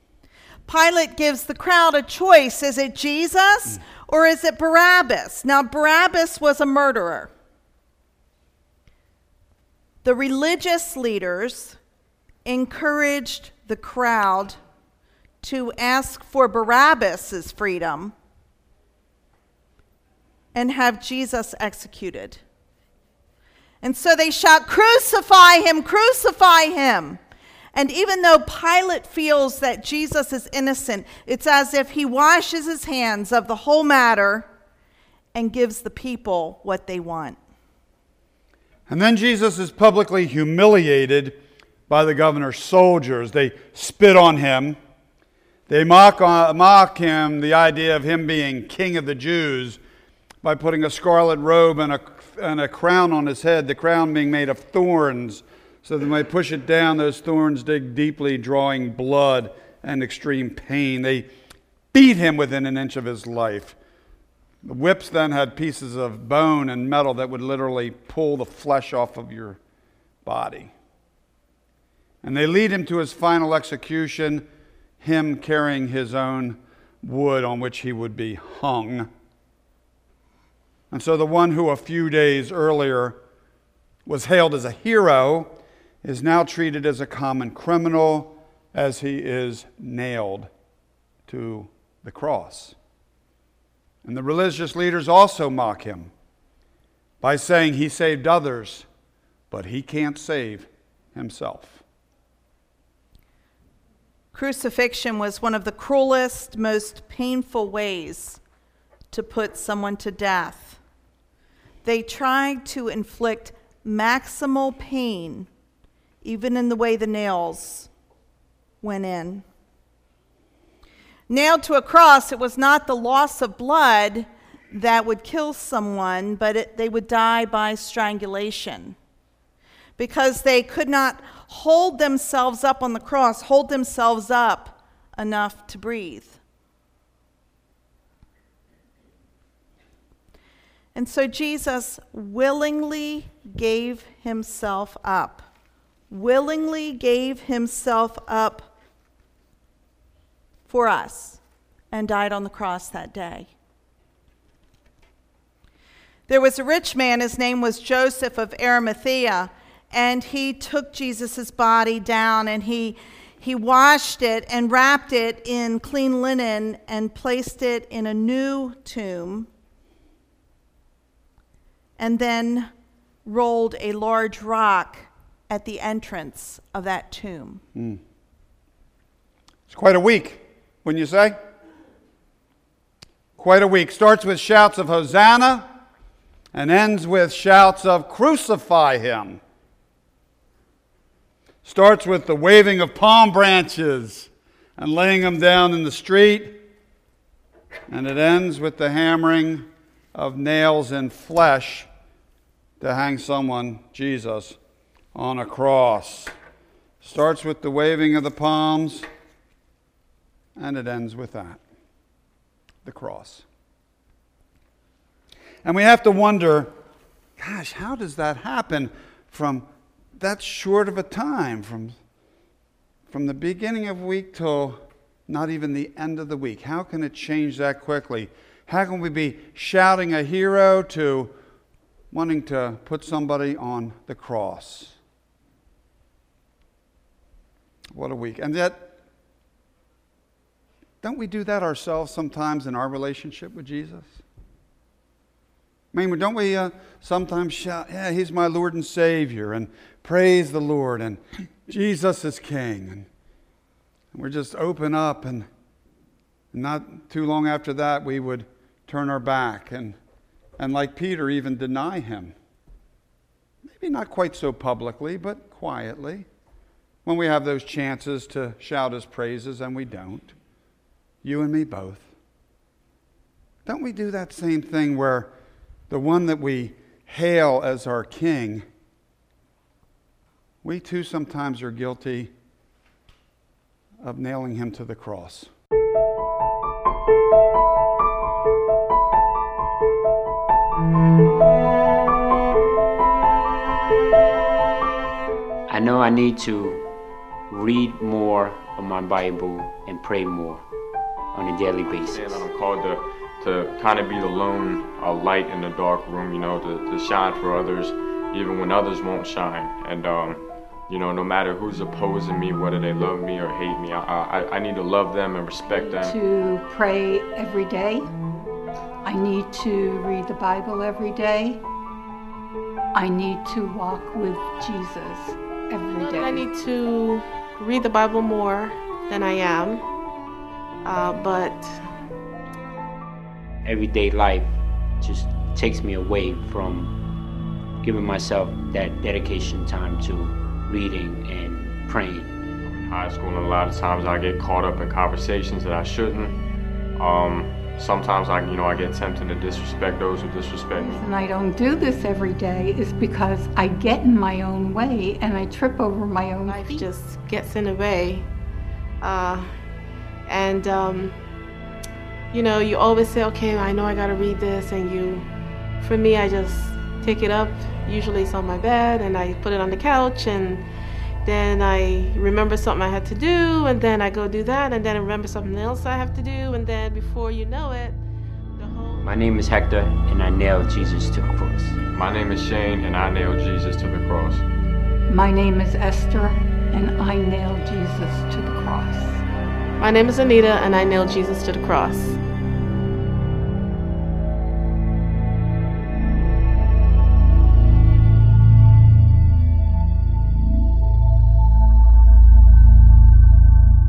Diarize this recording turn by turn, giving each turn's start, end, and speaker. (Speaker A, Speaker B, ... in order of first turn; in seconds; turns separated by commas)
Speaker A: 0.7-7.3, Speaker A: 10.0-11.8, Speaker A: 12.4-14.6, Speaker A: 15.4-18.1, Speaker A: 20.5-22.4, Speaker A: 23.8-27.2, Speaker A: 27.7-34.5, Speaker A: 35.3-37.4, Speaker B: 38.9-44.8, Speaker B: 45.7-49.8, Speaker B: 50.4-61.3, Speaker B: 61.9-63.8, Speaker B: 64.6-69.6, Speaker B: 70.2-70.7, Speaker B: 72.2-74.5, Speaker B: 75.0-79.1, Speaker B: 80.9-83.2, Speaker B: 84.1-90.5, Speaker B: 91.3-92.8, Speaker B: 94.0-96.1, Speaker B: 97.2-98.9, Speaker B: 99.5-101.8, Speaker A: 104.3-108.4, Speaker A: 109.1-110.8, Speaker A: 111.8-115.5, Speaker A: 116.2-117.9, Speaker A: 118.8-119.5, Speaker A: 121.3-129.0, Speaker A: 130.0-136.4, Speaker A: 140.9-145.5, Speaker A: 146.1-148.7, Speaker A: 150.7-151.4, Speaker A: 151.9-153.5, Speaker A: 156.3-169.5, Speaker A: 172.0-172.7, Speaker A: 173.2-177.6, Speaker B: 177.8-178.0, Speaker B: 179.7-181.4, Speaker B: 183.4-185.7, Speaker B: 186.5-189.4, Speaker B: 191.6-196.6, Speaker B: 197.9-201.9, Speaker B: 202.8-204.6, Speaker B: 205.1-206.3, Speaker B: 207.0-209.1, Speaker B: 210.6-211.6, Speaker B: 212.8-213.4, Speaker B: 215.6-216.7, Speaker B: 217.4-219.7, Speaker B: 220.2-222.0, Speaker B: 223.1-231.3, Speaker B: 232.1-235.0, Speaker B: 237.9-238.9, Speaker B: 241.0-244.2, Speaker B: 245.9-253.1, Speaker B: 254.1-255.5, Speaker B: 256.5-260.0, Speaker B: 260.6-262.4, Speaker B: 263.6-266.3, Speaker B: 267.1-270.4, Speaker B: 271.2-272.1, Speaker B: 273.6-275.3, Speaker B: 275.9-278.7, Speaker B: 280.6-282.3, Speaker B: 284.0-285.5, Speaker C: 295.7-296.8, Speaker C: 297.5-300.6, Speaker C: 301.3-302.5, Speaker D: 301.9-316.2, Speaker E: 315.6-318.1, Speaker E: 319.0-321.6, Speaker E: 322.9-326.5, Speaker F: 326.0-329.8, Speaker F: 330.9-331.9, Speaker C: 333.6-337.0, Speaker C: 337.8-342.3, Speaker D: 342.6-346.4, Speaker D: 347.0-351.1, Speaker E: 350.8-356.9, Speaker F: 356.5-358.3, Speaker F: 359.0-359.5, Speaker F: 360.3-361.1, Speaker F: 362.3-365.3, Speaker F: 365.8-370.6, Speaker F: 371.2-378.0, Speaker F: 378.6-379.1, Speaker C: 379.0-381.8, Speaker D: 381.9-384.4, Speaker E: 385.1-389.2, Speaker F: 389.8-392.2